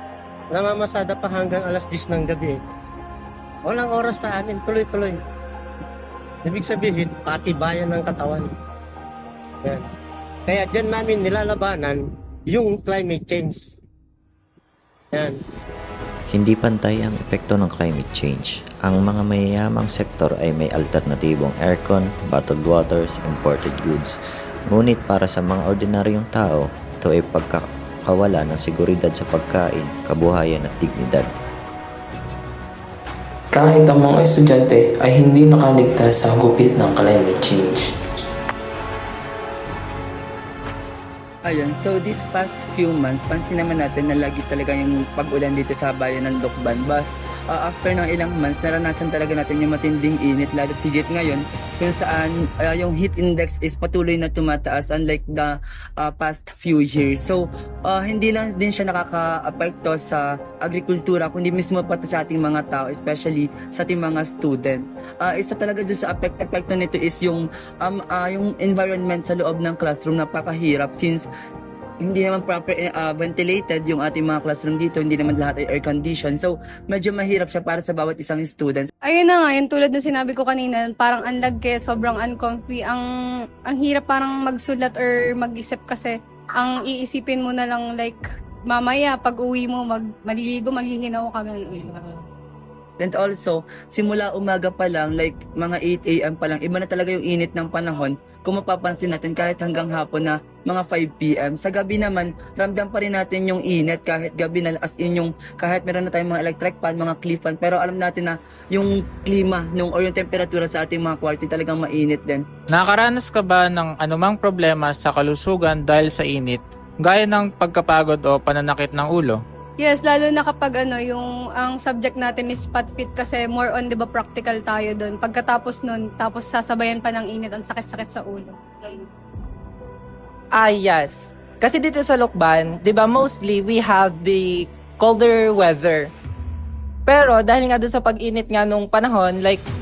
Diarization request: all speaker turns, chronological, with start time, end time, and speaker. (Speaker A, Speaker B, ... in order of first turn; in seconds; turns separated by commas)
Speaker A: 0.5-2.6, Speaker A: 3.7-5.2, Speaker A: 6.5-8.5, Speaker A: 10.5-12.0, Speaker A: 12.5-13.8, Speaker B: 16.3-24.1, Speaker B: 24.7-31.3, Speaker C: 33.5-37.8, Speaker D: 41.5-71.3, Speaker D: 72.0-78.9, Speaker E: 79.0-83.1, Speaker E: 83.7-92.2, Speaker D: 93.0-112.5, Speaker F: 112.7-119.4, Speaker E: 119.8-128.6, Speaker G: 130.5-136.1, Speaker G: 137.1-139.6